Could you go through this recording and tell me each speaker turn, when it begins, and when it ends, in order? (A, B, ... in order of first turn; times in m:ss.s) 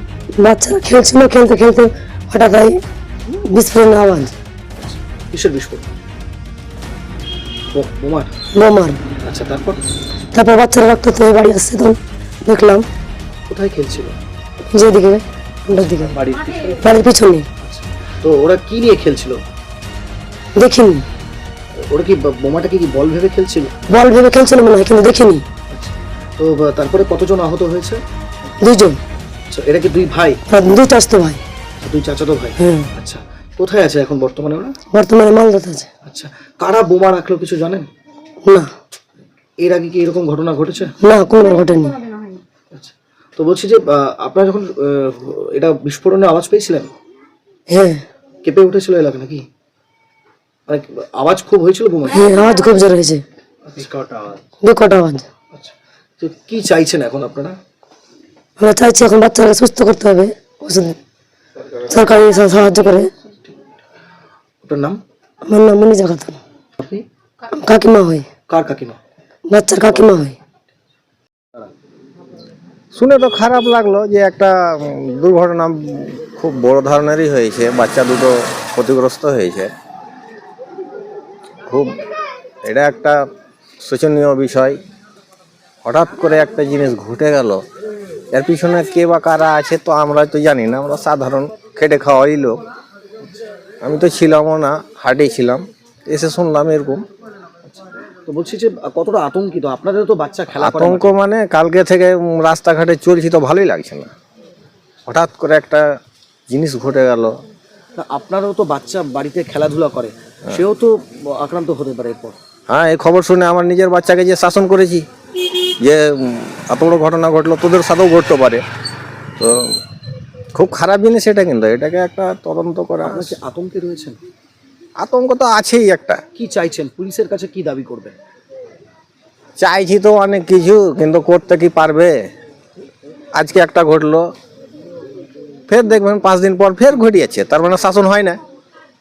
0:00.4-0:02.8 A
0:03.3-0:04.3 A
0:05.3-0:05.9 B
0:07.7-0:08.3 B
0:08.5-0:09.0 A
0:09.2-0:09.8 B
0:10.3-0:12.9 A
0:13.5-0:14.1 B
0:14.7-0:16.2 A
0:16.2-0:16.7 B
0:16.8-0:17.5 A
0:17.6-0:19.4 B
0:20.6-0:21.0 A
0:21.9-0:23.7 B
0:23.9-0:25.4 A
0:25.7-0:28.0 B
0:28.6-0:29.0 A
0:29.5-0:30.4 B
0:30.5-0:31.4 A
0:31.8-0:34.7 B
0:32.6-0:32.9 A
0:34.9-0:35.9 A
0:36.0-0:37.9 B
0:38.4-0:38.7 A
0:39.6-0:40.9 B
0:41.0-0:42.0 A
0:42.7-0:46.9 B
0:47.7-0:48.0 A
0:48.4-0:49.4 B
0:50.7-0:52.1 B
0:52.1-0:53.2 A
0:53.7-0:54.4 B
0:54.6-0:55.3 A
0:55.5-0:57.6 B
0:58.6-1:01.0 A
1:01.8-1:03.1 A
1:04.6-1:05.0 B
1:05.4-1:06.4 A
1:07.6-1:08.3 A
1:08.5-1:09.0 B
1:09.5-1:10.4 A
1:12.9-1:19.7 C
1:22.6-1:23.2 C
1:23.8-1:24.8 C
1:25.8-1:27.6 C
1:28.3-1:32.6 C
1:33.8-1:37.0 C
1:37.7-1:41.1 B
1:40.5-1:44.1 C
1:45.1-1:45.8 C
1:46.5-1:47.3 C
1:48.0-1:52.4 B
1:52.7-1:55.0 C
1:55.8-1:58.6 C
2:00.5-2:03.4 C
2:03.0-2:04.2 B
2:05.0-2:06.2 C
2:06.4-2:08.2 B
2:09.6-2:12.1 C
2:13.3-2:14.2 C
2:15.7-2:18.4 C